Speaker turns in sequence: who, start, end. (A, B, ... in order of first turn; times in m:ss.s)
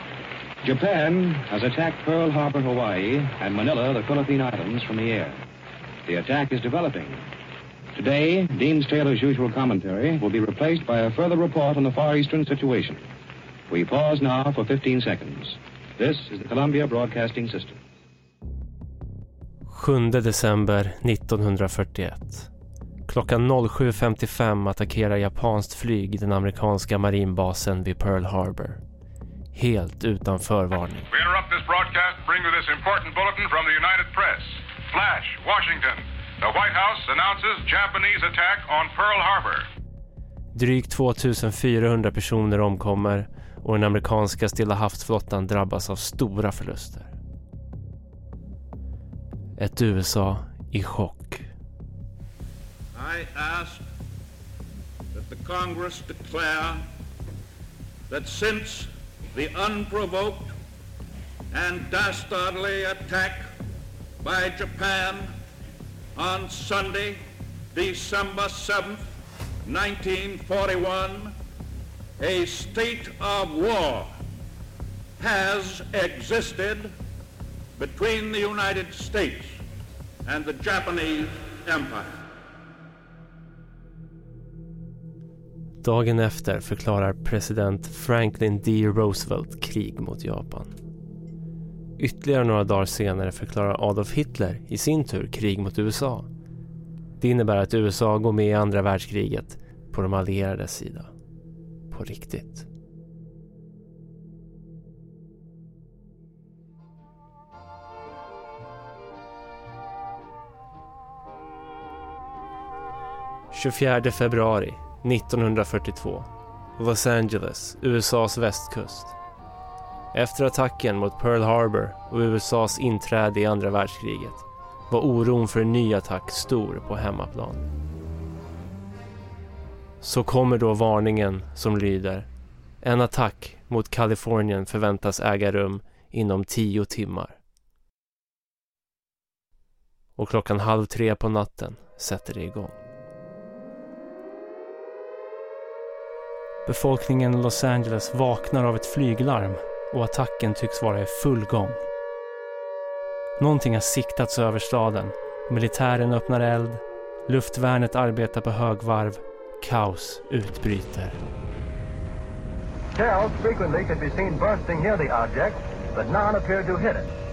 0:00.6-0:05.4 A
0:06.1-0:07.2 A
0:08.0-0:13.0 A
0:13.7-0:17.8 A
0:19.7-0:22.5 B
0:23.1-0:28.8 B
0:29.5-0:31.1 B
0:31.1-0:39.7 C
0:40.6-0:47.1 B
0:49.6-0:51.5 B
0:53.0-0:53.8 D
0:55.1-0:56.8 D
0:58.1-1:00.6 D
1:01.5-1:03.5 D
1:04.2-1:05.4 D
1:06.2-1:09.1 D
1:09.6-1:11.4 D
1:12.2-1:14.1 D
1:15.2-1:16.9 D
1:17.8-1:19.6 D
1:20.2-1:22.1 D
1:25.8-1:30.7 B
1:32.0-1:36.3 B
1:37.2-1:41.1 B
1:41.9-1:42.7 B
1:53.5-1:59.1 B
2:00.1-2:07.7 B
2:10.0-2:12.3 B
2:12.8-2:17.4 B
2:20.2-2:22.8 B
2:26.7-2:31.9 B
2:33.4-2:41.2 B
2:42.9-2:47.1 E